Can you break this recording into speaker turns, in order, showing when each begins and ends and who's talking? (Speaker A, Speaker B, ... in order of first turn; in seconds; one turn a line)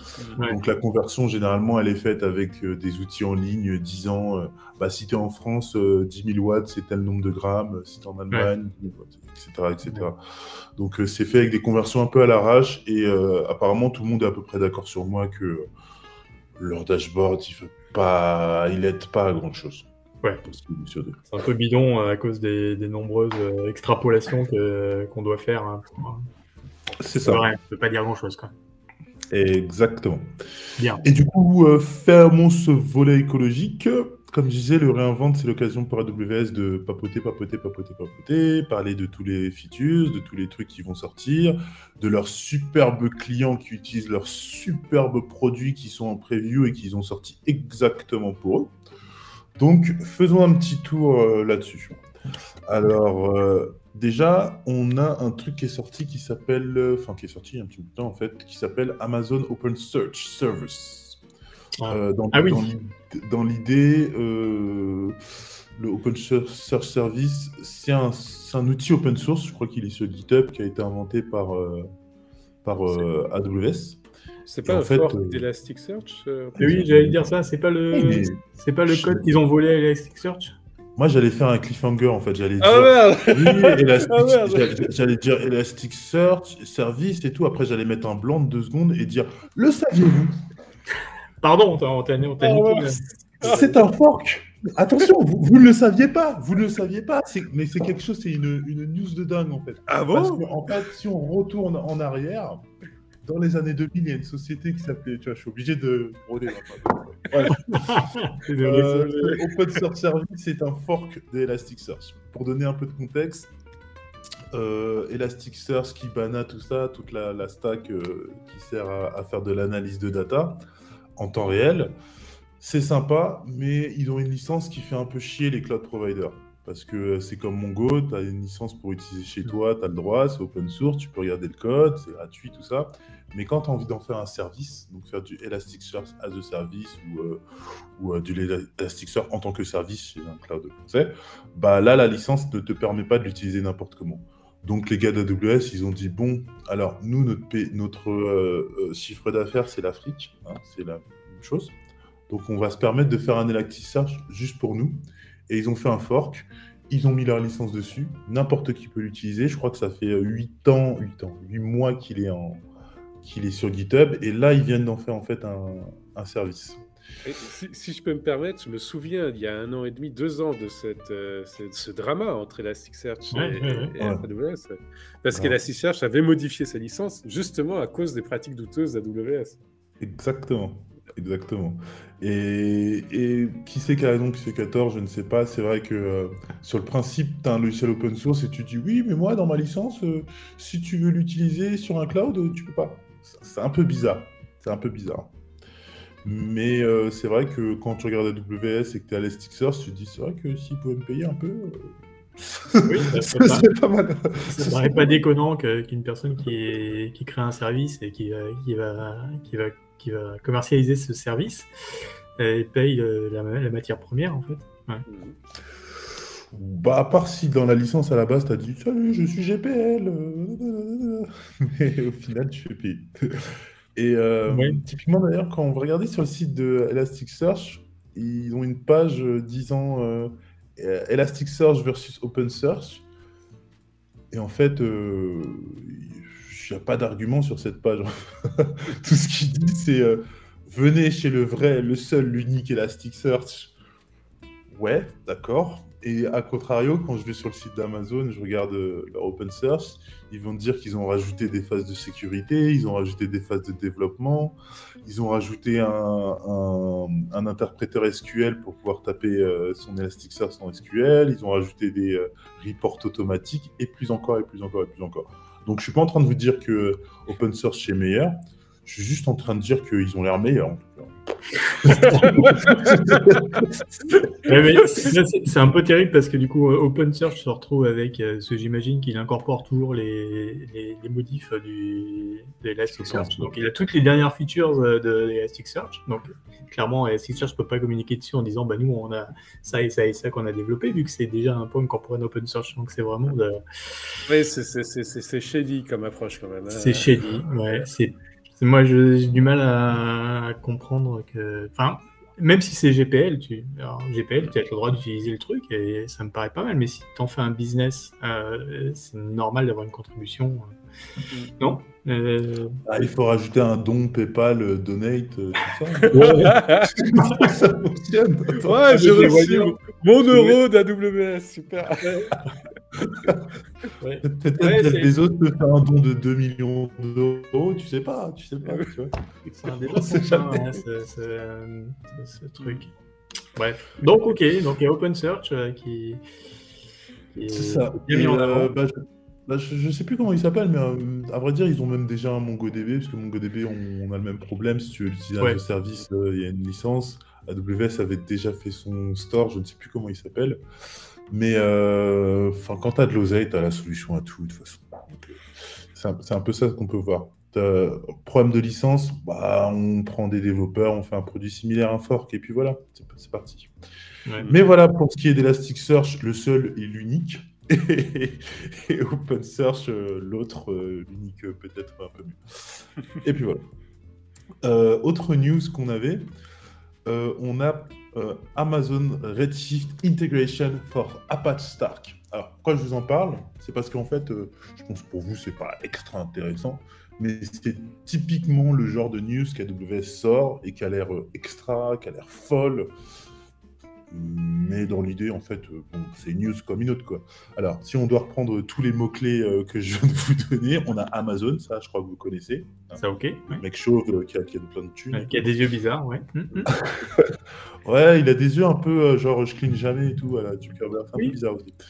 Speaker A: 0.4-10.2
Speaker A: 10.8-15.7
Speaker A: 16.6-19.9
Speaker A: 20.4-21.2
Speaker B: 21.3-26.3
Speaker A: 27.0-27.5
Speaker B: 27.1-28.5
Speaker A: 29.3-30.3
Speaker B: 30.8-31.1
Speaker A: 31.0-48.7
Speaker A: 49.6-52.0
Speaker A: 52.7-61.2
Speaker B: 61.8-62.7
Speaker A: 61.9-65.2
Speaker A: 65.8-71.9
Speaker A: 72.6-74.0
Speaker C: 74.5-76.8
Speaker A: 74.7-75.4
Speaker A: 76.6-77.2
Speaker B: 76.6-80.6
Speaker A: 77.9-79.3
Speaker A: 81.0-90.3
Speaker C: 82.6-84.8
Speaker B: 91.4-93.8
Speaker C: 92.4-93.8
Speaker A: 93.4-102.7
Speaker C: 99.9-100.4
Speaker A: 103.2-108.0
Speaker B: 107.5-109.4
Speaker A: 108.6-113.5
Speaker A: 114.5-120.6
Speaker A: 121.2-122.0
Speaker A: 122.6-137.4
Speaker A: 138.0-151.8
Speaker A: 152.3-162.6
Speaker A: 163.2-166.8
Speaker C: 167.2-179.6
Speaker B: 173.3-173.9
Speaker A: 174.0-174.2
Speaker A: 180.0-195.3
Speaker A: 196.2-205.2
Speaker B: 202.9-203.7
Speaker B: 204.4-211.7
Speaker B: 212.4-215.1
Speaker C: 215.1-215.4
Speaker A: 216.5-233.1
Speaker B: 224.5-224.8
Speaker A: 234.3-243.8
Speaker A: 244.7-271.1
Speaker B: 271.8-272.6
Speaker A: 271.8-274.2
Speaker B: 274.5-294.1
Speaker A: 283.0-283.6
Speaker C: 294.3-297.9
Speaker B: 296.7-310.8
Speaker B: 311.6-312.8
Speaker A: 312.9-318.7
Speaker C: 316.0-317.0
Speaker B: 316.1-316.6
Speaker B: 317.2-317.5
Speaker C: 318.6-322.4
Speaker B: 318.7-319.8
Speaker B: 320.3-320.6
Speaker A: 323.0-323.4
Speaker B: 324.0-325.1
Speaker A: 324.3-329.2
Speaker B: 329.5-332.9
Speaker A: 329.8-330.6
Speaker B: 333.6-336.2
Speaker B: 337.3-338.7
Speaker A: 337.5-350.6
Speaker A: 351.3-355.3
Speaker A: 355.9-363.7
Speaker B: 364.3-364.5
Speaker A: 364.4-373.6
Speaker A: 374.6-376.3
Speaker A: 377.1-392.9
Speaker A: 394.1-405.5
Speaker B: 403.0-403.6
Speaker B: 405.1-406.8
Speaker A: 406.7-411.8